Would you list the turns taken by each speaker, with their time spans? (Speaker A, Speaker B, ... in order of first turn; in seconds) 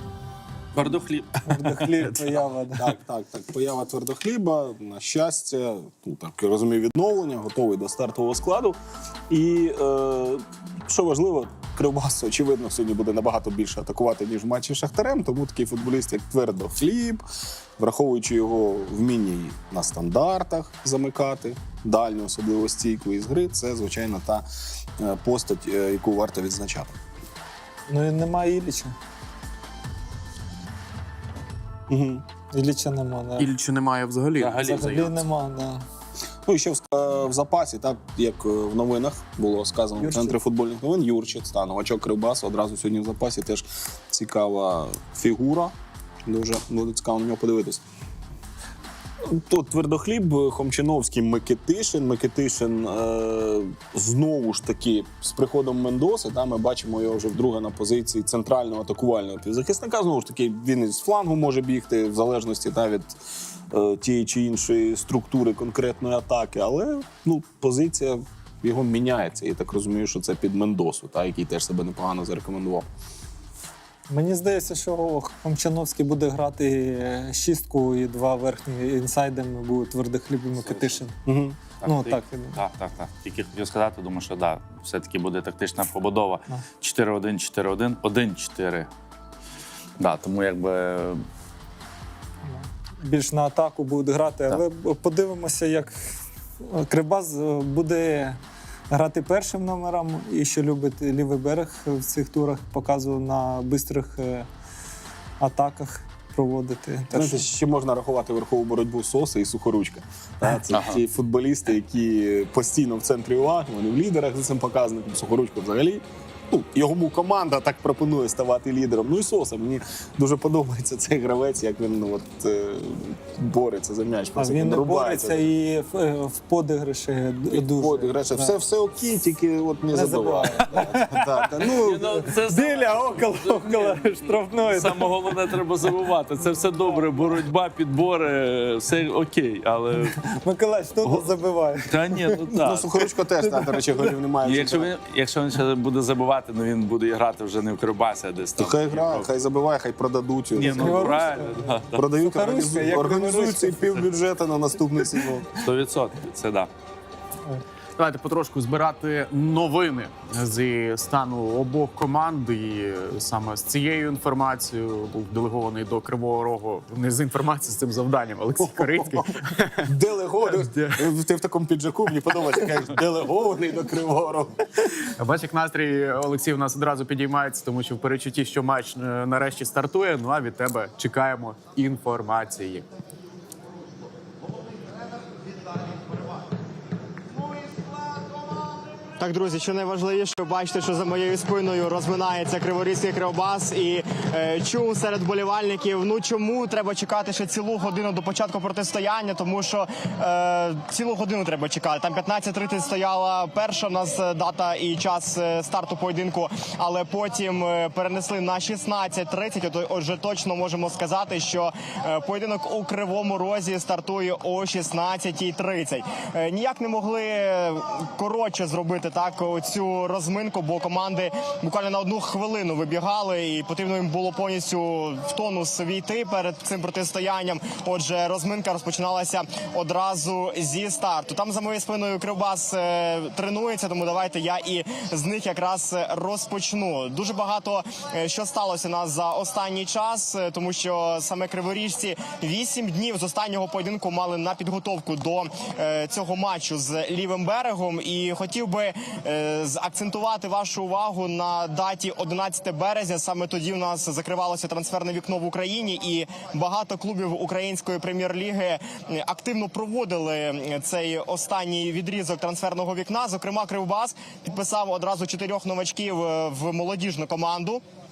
Speaker A: 0.7-1.4, 34.4-34.9, 81.8-88.9, 90.0-91.2, 110.7-111.0, 131.7-140.3, 141.8-142.9, 144.4-149.3, 150.5-152.0, 155.6-156.7
Speaker B: 1.4-2.9, 27.9-28.9, 32.5-33.5, 34.5-35.8, 40.0-40.4, 74.1-81.2, 81.8-82.6, 92.4-98.4, 98.9-104.5, 105.4-107.4, 124.4-128.5, 129.9-135.6, 140.2-142.6, 143.4-143.8, 150.6-154.0
Speaker C: 2.1-8.8, 9.3-17.2, 17.8-24.4, 25.0-26.9, 31.9-32.2, 36.4-45.7, 46.2-47.8, 49.2-63.2, 63.7-72.9, 81.2-81.6, 107.1-125.4, 127.5-132.2, 142.5-144.9, 148.6-155.5, 168.7-174.6
Speaker D: 33.4-35.2, 158.0-169.9, 170.6-171.0, 175.2-182.8
Speaker E: 189.2-267.8